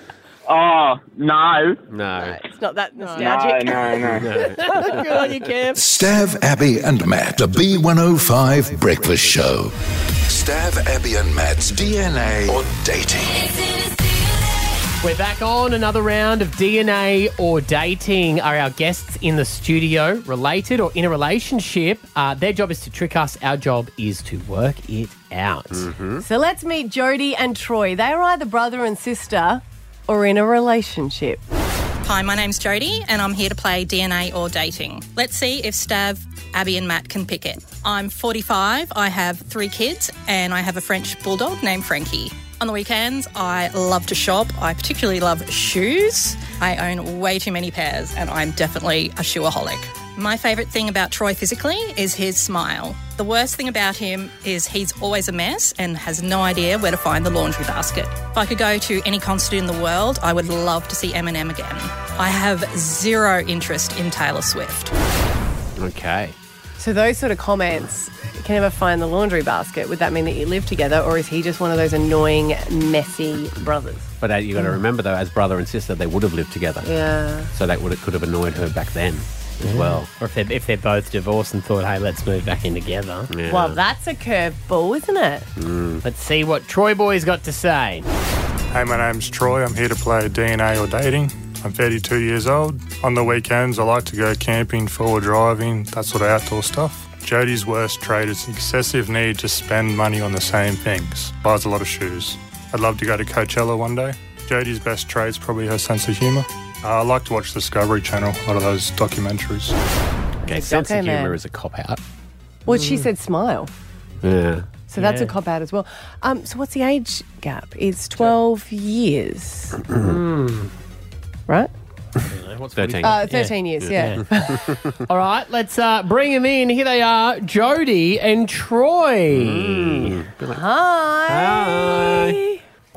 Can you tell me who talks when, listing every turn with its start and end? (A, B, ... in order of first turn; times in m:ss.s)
0:00.5-0:01.8 A
0:01.9-0:02.4 B
0:02.2-0:05.0 C
0:03.2-0:04.4 A
0:04.0-0:05.0 B
0:04.4-0:05.8 D
0:05.8-0:09.7 E
0:10.3-0:13.5 E
0:15.0-0:25.9 D
0:25.7-0:26.2 B
0:26.2-0:31.4 C
0:32.0-1:04.9 F
1:05.8-1:06.4 B
1:06.8-1:14.1 C
1:14.2-1:16.9 B
1:16.8-1:17.5 C
1:17.5-1:20.1 B
1:19.6-1:23.3 D
1:23.3-1:23.8 B
1:23.5-1:25.5 C
1:25.6-1:26.0 B
1:26.0-1:28.1 D
1:28.7-1:49.8 G
1:50.4-1:52.0 B
1:50.5-1:51.4 C
1:52.7-1:53.7 C
1:52.7-1:53.1 D
1:54.2-1:54.7 B
1:54.9-1:59.8 C
1:55.0-1:55.3 D
1:59.9-2:00.2 B
1:59.9-2:00.7 D
2:02.3-2:04.2 D
2:02.6-2:05.0 B
2:03.0-2:04.8 C
2:05.1-2:10.2 D
2:09.3-2:10.6 B
2:10.5-2:12.6 C
2:11.3-2:12.4 B